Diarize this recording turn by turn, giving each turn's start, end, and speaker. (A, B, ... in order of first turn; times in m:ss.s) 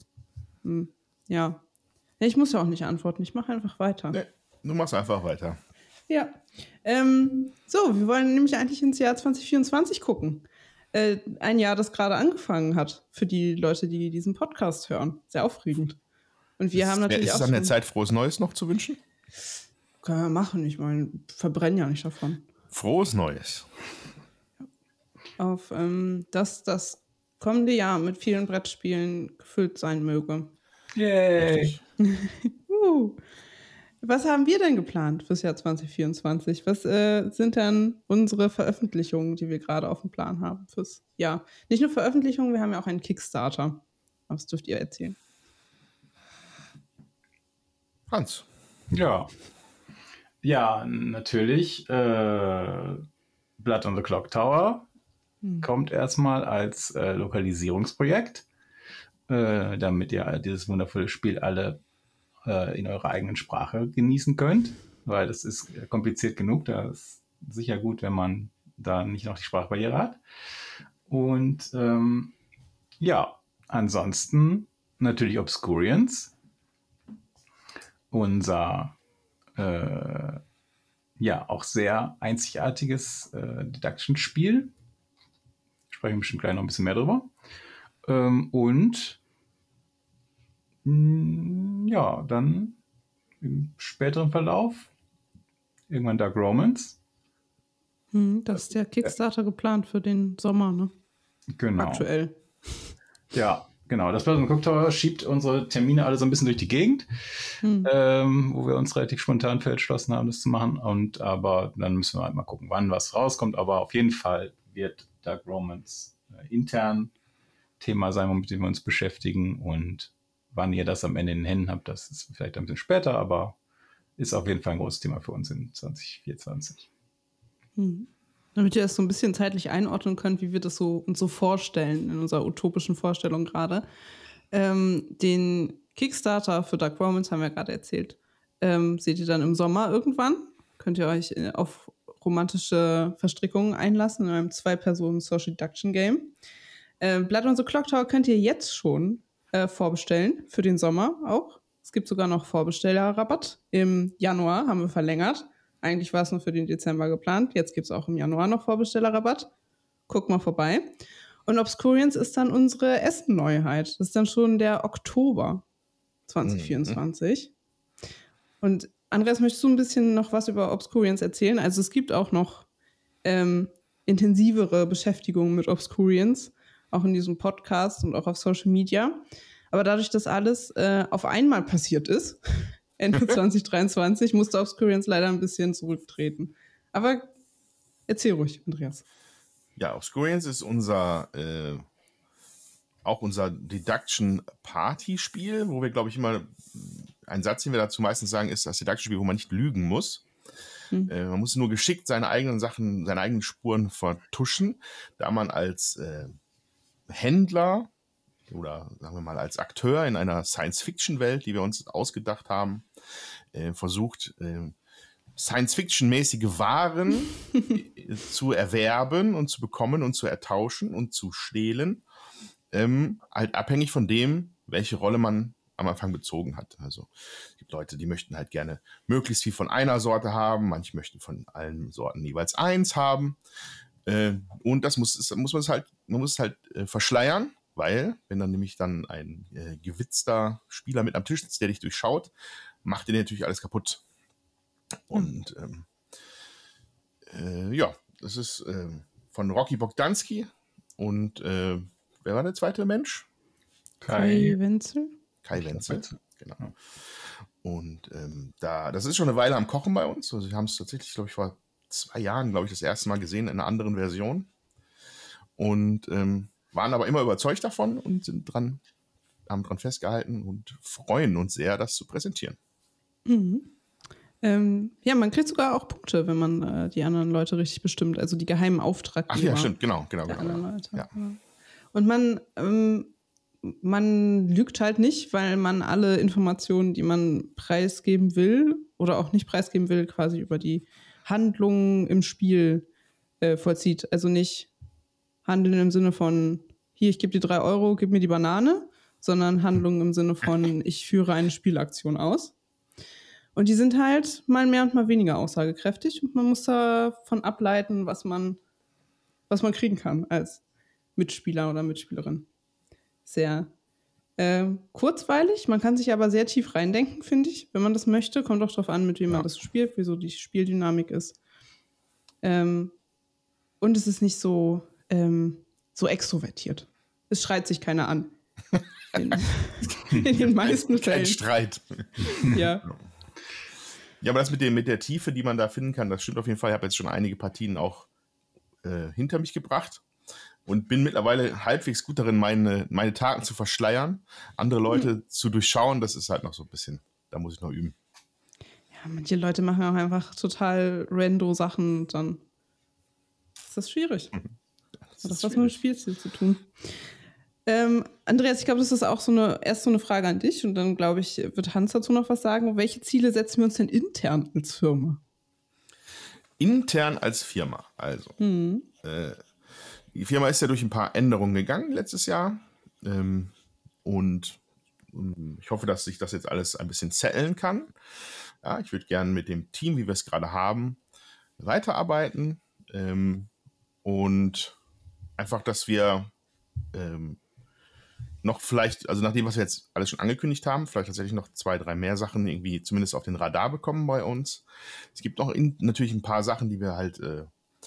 0:00.6-0:01.6 A
0:02.2-0:04.2 A
0:04.1-0:05.6 B
0:06.1-0:16.0 A
0:16.6-0:17.7 A
0:16.7-0:19.0 B
0:20.0-0:22.5 A
0:22.7-0:23.7 B
0:25.4-0:30.5 A
0:30.9-0:31.8 C
0:31.4-0:31.8 B
0:32.0-0:33.2 A
0:34.0-0:45.2 A
0:48.1-0:48.4 B
0:48.9-0:49.3 C
0:50.4-0:53.0 C
0:53.6-0:54.9 C
0:55.6-0:58.4 C
0:59.3-1:01.8 C
1:02.4-1:10.2 C
1:11.1-1:12.3 C
1:13.0-1:16.3 C
1:18.1-1:19.0 C
1:19.5-1:20.4 C
1:21.2-1:24.7 C
1:25.9-1:27.3 C
1:28.0-1:29.2 C
1:30.8-1:32.8 C
1:33.4-1:34.9 C
1:35.9-1:37.0 C
1:38.1-1:40.9 A
1:41.6-1:42.1 C
1:41.8-1:42.9 A
1:43.3-1:57.1 C
1:47.6-1:47.9 A
1:57.8-2:03.6 C
2:04.2-2:06.9 C
2:07.8-2:13.8 A
2:14.5-2:26.3 A
2:27.0-2:39.5 A
2:40.1-2:40.9 A
2:41.4-2:45.6 A
2:46.3-2:47.5 A
2:46.4-2:47.0 B
2:48.6-2:52.7 A
2:53.2-3:07.3 A
3:08.1-3:09.0 A
3:09.8-3:11.8 B
3:13.0-3:20.2 B
3:21.1-3:26.3 B
3:27.1-3:27.9 B
3:28.5-3:32.9 B
3:33.5-3:34.8 B
3:35.4-3:42.0 B
3:42.7-3:53.4 B
3:54.1-4:02.3 B
4:02.8-4:04.0 B
4:05.1-4:05.9 B
4:07.3-4:13.2 B
4:14.0-4:14.6 C
4:14.1-4:15.1 A
4:15.4-4:16.6 B
4:15.6-4:16.7 C
4:17.6-4:24.5 B
4:25.6-4:28.8 B
4:29.5-4:32.6 B
4:33.2-4:33.7 A
4:34.4-4:39.8 A
4:39.3-4:41.1 B
4:40.2-4:41.4 A
4:41.9-4:43.1 A
4:43.6-4:52.9 A
4:53.4-4:54.7 A
4:55.4-5:02.5 A
5:03.6-5:08.6 A
5:09.5-5:10.6 A
5:11.2-5:12.5 A
5:13.2-5:13.7 A
5:14.4-5:21.4 A
5:22.4-5:22.9 A
5:23.8-5:28.3 A
5:29.1-5:31.4 A
5:30.5-5:32.3 B
5:32.2-5:32.8 A
5:34.2-5:38.1 B
5:38.8-5:40.0 B
5:40.7-5:48.0 B
5:48.9-5:52.4 A
5:53.6-5:54.4 A
5:55.1-5:55.7 B
5:55.2-5:56.7 A
5:57.7-6:05.2 A
6:06.6-6:08.4 B
6:08.4-6:08.9 A
6:09.0-6:09.4 B
6:10.1-6:13.5 B
6:14.0-6:17.9 B
6:18.6-6:21.0 B
6:21.6-6:23.5 B
6:24.0-6:24.8 B
6:25.4-6:26.3 B
6:26.9-6:27.4 B
6:28.4-6:37.5 B